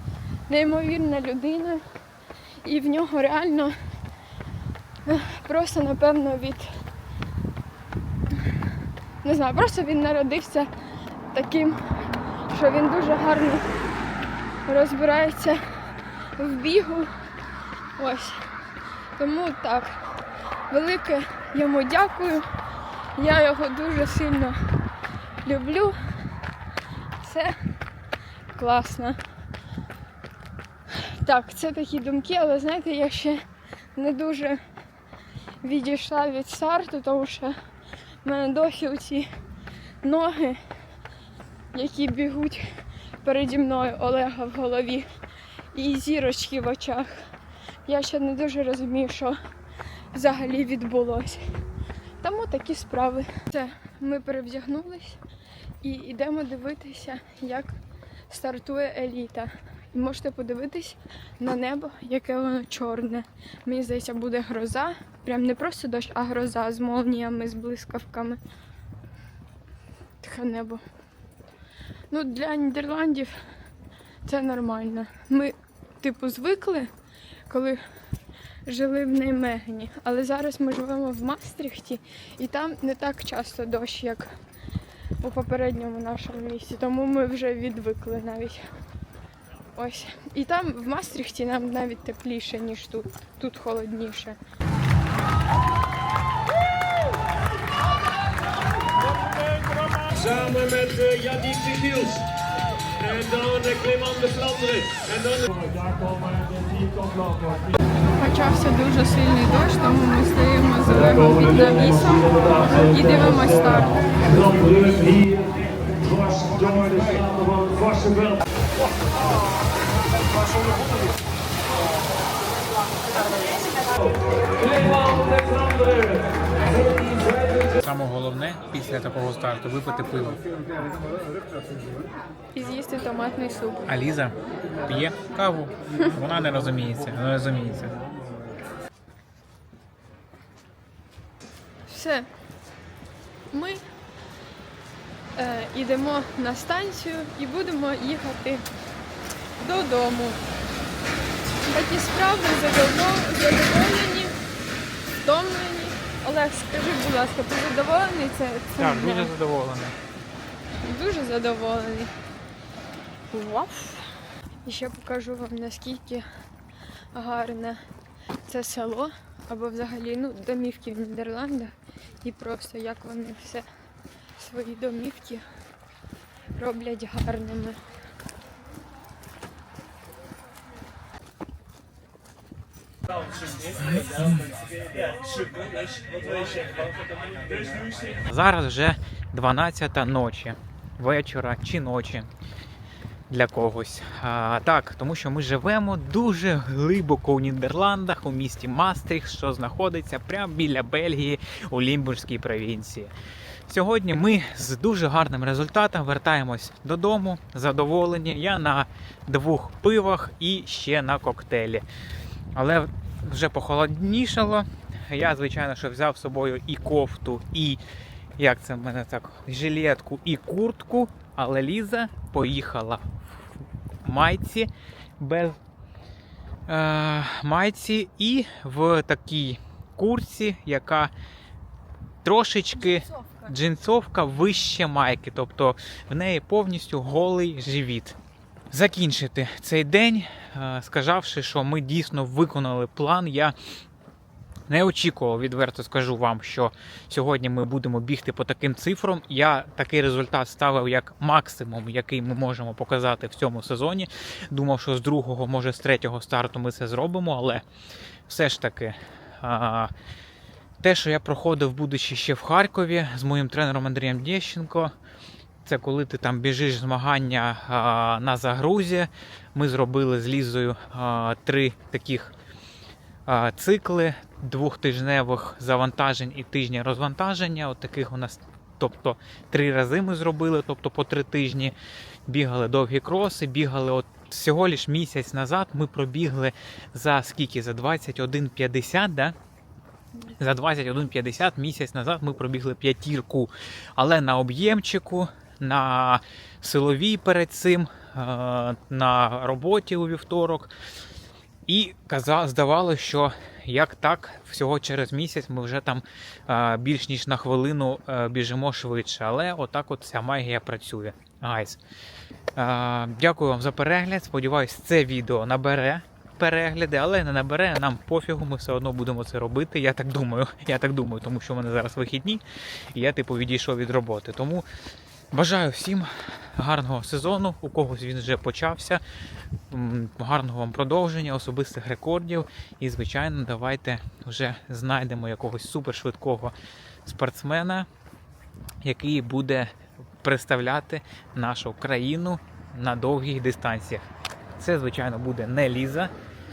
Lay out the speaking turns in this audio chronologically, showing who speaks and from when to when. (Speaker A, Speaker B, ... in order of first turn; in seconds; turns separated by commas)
Speaker A: 0.5-1.8, Speaker A: 2.6-3.7, Speaker A: 5.0-6.7, Speaker A: 9.2-10.7, Speaker A: 11.3-11.8, Speaker A: 12.5-13.7, Speaker A: 14.7-15.6, Speaker A: 16.4-17.1, Speaker A: 18.0-18.4, Speaker A: 19.2-19.9, Speaker A: 20.7-22.4, Speaker A: 23.1-24.6, Speaker A: 25.4-25.9, Speaker A: 27.2-27.5, Speaker A: 28.5-29.2, Speaker A: 30.9-33.4, Speaker A: 34.0-34.6, Speaker A: 35.6-37.5, Speaker A: 38.2-39.3, Speaker A: 40.0-40.6, Speaker A: 41.7-42.6, Speaker A: 43.2-45.0, Speaker A: 45.7-47.1, Speaker A: 47.9-49.4, Speaker A: 50.1-51.4, Speaker A: 52.2-55.2, Speaker A: 55.8-57.7, Speaker A: 58.3-68.4, Speaker A: 70.2-70.8, Speaker A: 72.1-73.3, Speaker A: 74.2-76.9, Speaker A: 77.5-77.8, Speaker A: 78.7-84.3, Speaker A: 85.2-88.6, Speaker A: 89.8-94.4, Speaker B: 99.5-102.2, Speaker B: 103.0-107.8, Speaker A: 108.2-114.0, Speaker B: 110.9-118.4, Speaker B: 124.6-127.8, Speaker C: 127.8-130.4, Speaker A: 132.5-133.8, Speaker C: 133.9-137.9, Speaker A: 141.9-142.3, Speaker A: 143.5-143.8, Speaker A: 145.4-148.7, Speaker A: 149.6-150.4, Speaker A: 151.7-154.3, Speaker A: 155.2-159.3, Speaker C: 158.8-159.9, Speaker A: 160.8-162.1, Speaker A: 163.3-164.1, Speaker A: 164.6-166.2, Speaker A: 167.1-167.8, Speaker A: 168.5-173.6, Speaker A: 174.4-175.4, Speaker A: 176.6-177.8, Speaker C: 183.8-184.4, Speaker C: 188.2-192.3, Speaker C: 193.3-203.1, Speaker C: 203.7-211.8, Speaker C: 212.5-217.8, Speaker C: 218.4-225.6, Speaker C: 226.7-231.1, Speaker C: 232.2-238.2, Speaker A: 232.8-233.5, Speaker C: 238.7-243.5, Speaker C: 244.7-257.6, Speaker C: 258.3-259.9, Speaker C: 260.8-264.9, Speaker C: 265.6-272.3, Speaker C: 273.3-281.7, Speaker C: 282.3-289.3, Speaker C: 290.4-300.7, Speaker C: 301.7-311.8, Speaker C: 312.6-322.4, Speaker C: 322.9-324.6, Speaker C: 325.3-329.0, Speaker C: 329.7-336.5, Speaker C: 337.0-337.9, Speaker C: 338.8-344.0, Speaker C: 344.6-346.1